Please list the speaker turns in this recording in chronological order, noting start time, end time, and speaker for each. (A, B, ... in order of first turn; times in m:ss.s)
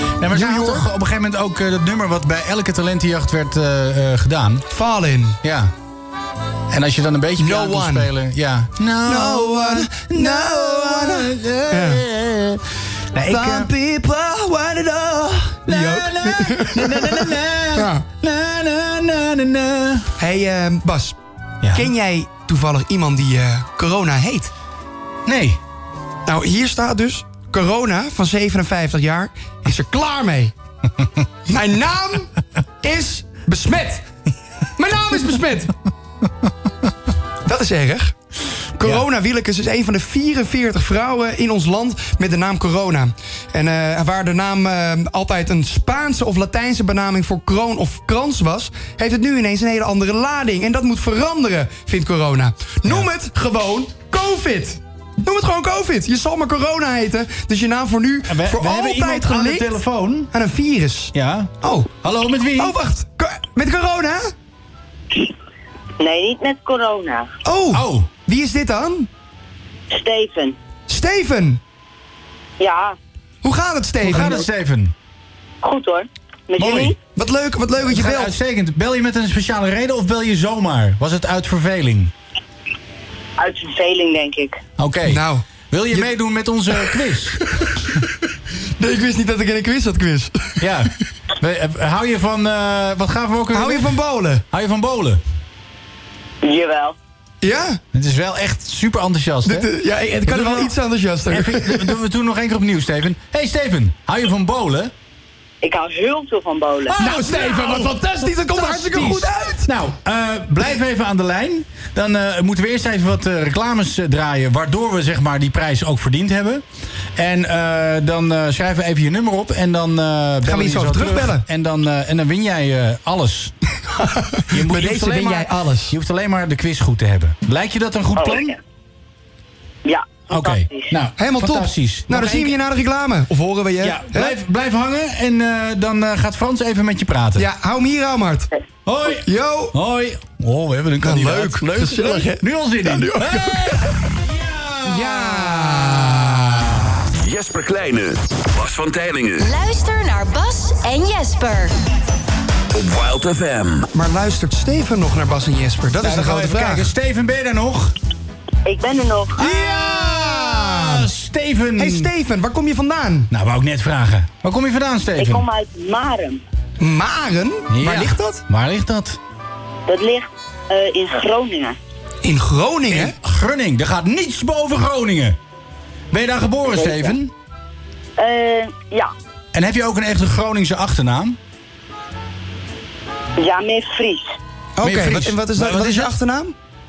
0:00.2-0:04.7 A
0:00.3-0:00.8 B
0:04.7-0:05.4 B
0:05.4-0:05.7 A
0:06.7-0:13.7 A
0:07.4-0:08.1 B
0:09.0-0:12.0 B
0:13.3-0:18.0 B
0:15.7-0:20.1 A
0:20.2-0:21.2 B
0:21.6-0:21.9 A
0:21.7-0:24.5 B
0:25.3-0:25.6 A
0:26.3-0:30.5 B
0:31.5-0:34.0 B
0:34.8-0:35.7 B
0:37.4-0:38.2 B
0:38.8-0:59.8 B
0:52.8-0:53.1 A
0:58.3-1:00.3 A
1:00.3-1:01.9 B
1:01.1-1:02.8 A
1:02.6-1:04.3 B
1:06.0-1:07.3 C
1:07.4-1:09.1 B
1:07.7-1:08.1 A
1:09.9-1:10.6 C
1:10.9-1:11.6 B
1:12.6-1:13.0 C
1:13.4-1:14.5 B
1:14.0-1:14.9 A
1:15.6-1:17.0 C
1:16.6-1:17.0 A
1:17.2-1:18.3 B
1:17.8-1:22.1 A
1:23.4-1:24.6 C
1:24.8-1:27.4 A
1:25.1-1:26.1 B
1:28.8-1:30.4 B
1:30.6-1:34.0 A
1:33.5-1:34.4 B
1:34.5-1:35.2 A
1:36.4-1:37.0 C
1:37.4-1:37.8 B
1:37.9-1:39.7 A
1:39.5-1:41.9 B
1:40.2-1:40.7 A
1:41.3-1:44.9 A
1:45.6-1:47.0 C
1:46.9-1:56.6 A
1:47.0-1:49.7 B
1:57.2-2:03.5 A
2:00.4-2:01.4 B
2:04.0-2:06.0 B
2:04.5-2:08.6 A
2:08.2-2:08.6 C
2:09.8-2:10.9 C
2:10.3-2:12.6 A
2:11.2-2:14.4 B
2:13.8-2:17.5 A
2:17.4-2:18.5 B
2:18.9-2:26.9 A
2:19.2-2:19.7 B
2:21.0-2:23.9 B
2:24.9-2:26.5 B
2:27.2-2:29.5 D
2:29.4-2:31.8 E
2:32.7-2:33.9 D
2:33.9-2:36.9 B
2:36.0-2:37.9 A
2:38.6-2:39.4 C
2:39.4-2:42.1 A
2:39.4-2:41.1 B
2:41.8-2:43.3 B
2:43.3-2:45.4 A
2:45.2-2:46.4 C
2:46.8-2:48.4 B
2:47.7-2:49.2 A
2:49.9-2:51.8 C
2:52.2-2:53.2 B
2:52.9-2:55.4 A
2:56.1-2:57.3 A
2:56.7-2:57.2 C
2:58.2-2:59.1 C
2:59.5-3:01.4 A
3:03.4-3:04.3 C
3:04.8-3:06.6 B
3:04.8-3:06.1 A